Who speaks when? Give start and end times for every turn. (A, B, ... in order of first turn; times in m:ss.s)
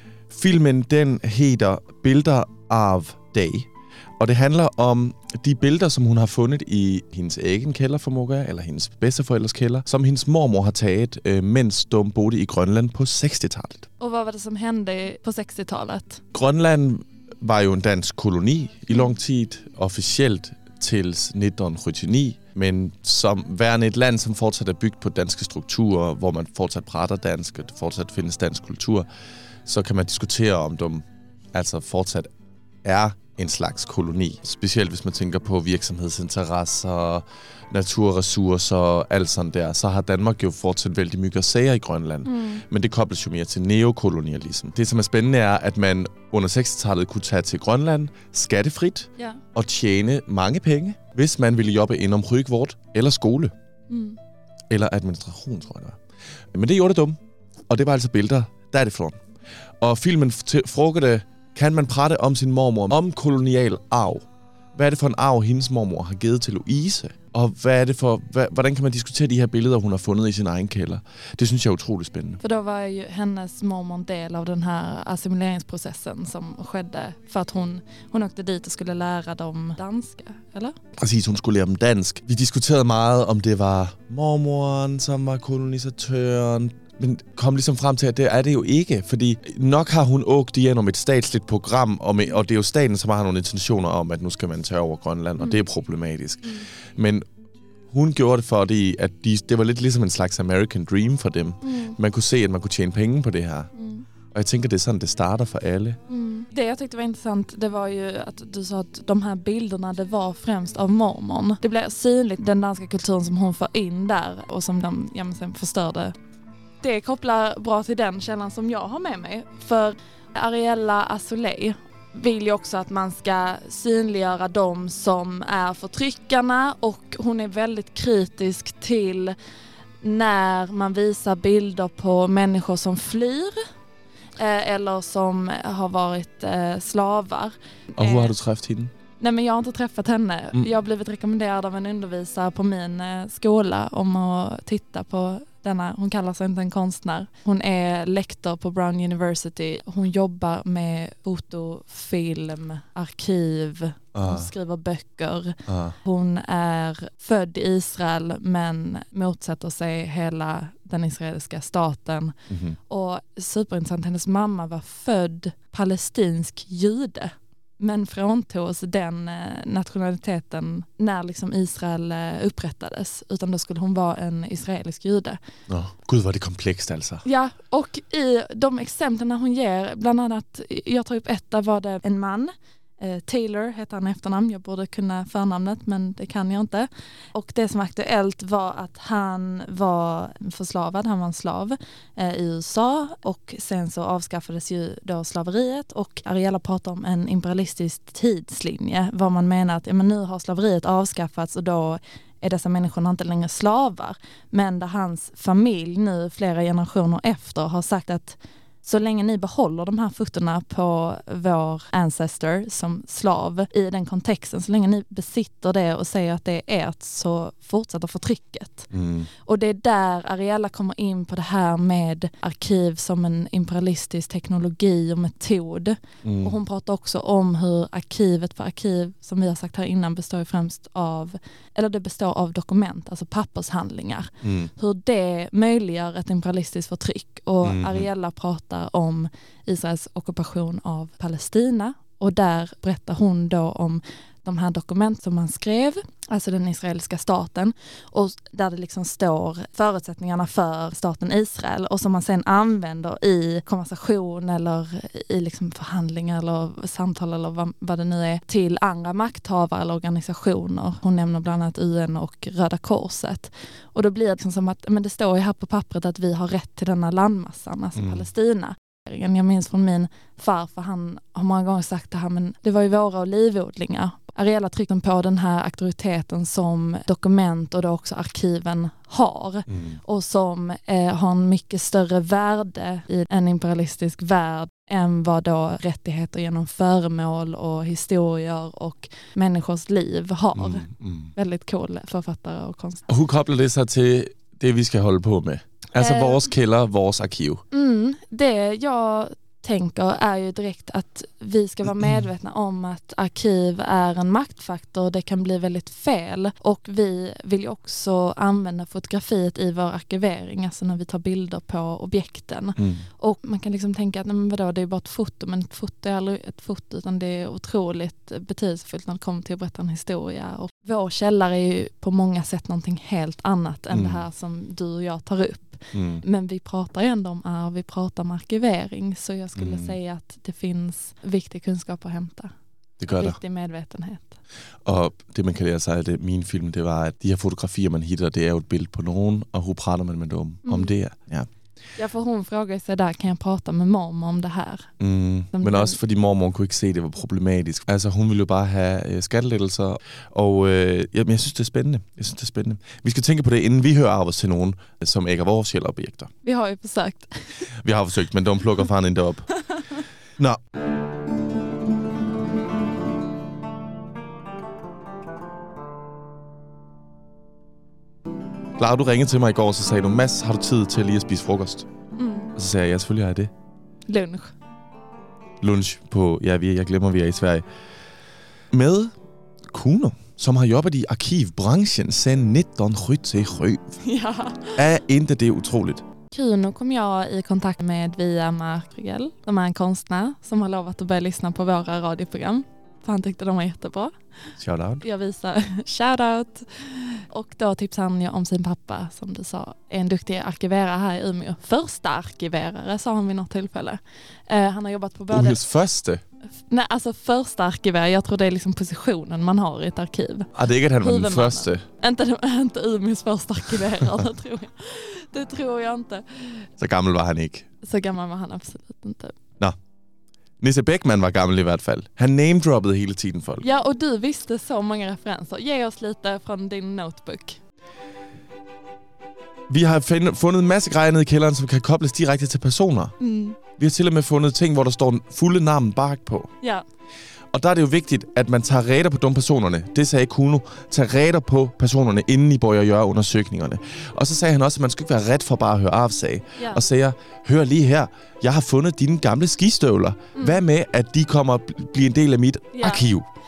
0:00.3-0:03.7 A
0:04.2-0:13.9 A
0:14.0-0:16.2 B
0:16.3-0:29.1 A
0:29.7-0:32.3 A
0:32.8-0:53.5 A
0:42.2-0:42.6 B
0:53.9-0:54.2 B
0:54.7-0:56.0 A
0:56.5-0:57.2 A
0:57.7-0:59.2 A
0:59.8-1:12.4 A
1:12.4-1:20.8 B
1:21.0-1:37.2 A
1:37.9-1:43.7 A
1:41.6-1:42.0 B
1:43.8-1:44.1 B
1:44.3-1:46.0 A
1:46.1-1:56.1 B
1:56.8-2:09.4 B
2:10.0-2:13.6 B
2:14.4-2:18.3 B
2:18.0-2:18.9 A
2:19.2-2:42.4 B
2:34.1-2:34.5 A
2:35.7-2:36.0 A
2:42.5-2:42.8 A
2:42.9-2:55.4 B
2:55.7-2:57.2 A
2:57.2-3:38.9 B
3:38.9-3:39.3 A
3:39.4-4:53.1 B
3:46.2-3:46.6 A
3:54.4-3:54.7 A
3:57.6-3:58.1 A
4:28.0-4:28.2 A
4:39.7-4:40.0 A
4:50.6-4:51.3 A
4:53.1-4:57.6 A
4:56.0-4:56.4 B
4:57.7-5:32.5 B
5:12.8-5:13.0 A
5:23.9-5:24.2 A
5:25.9-5:26.2 A
5:29.6-5:30.0 A
5:33.0-5:33.4 A
5:33.1-5:34.4 B
5:34.8-5:41.5 A
5:40.6-5:40.9 B
5:42.0-5:44.9 B
5:45.0-5:56.3 A
5:45.5-5:46.0 B
5:56.4-5:57.7 B
5:57.8-5:59.5 A
6:08.8-6:11.9 A
6:12.2-6:12.5 B
6:12.6-6:13.5 A
6:14.1-6:14.5 B
6:15.6-6:17.6 A
6:18.7-6:19.1 A
6:19.7-6:24.0 A
6:24.0-6:24.8 B
6:24.8-6:26.0 A
6:26.3-6:34.1 B
6:34.6-6:35.0 A
6:35.0-6:45.6 B
6:45.3-6:46.2 A
6:46.7-6:56.7 B
6:50.5-6:51.8 A
6:56.8-6:57.7 A
6:57.8-6:59.4 B
7:00.6-7:03.7 A
7:03.6-7:07.6 B
7:09.7-7:13.2 A
7:13.2-7:13.6 B
7:13.8-7:16.5 A
7:17.5-7:33.3 A
7:26.6-7:26.8 B
7:32.7-7:33.0 B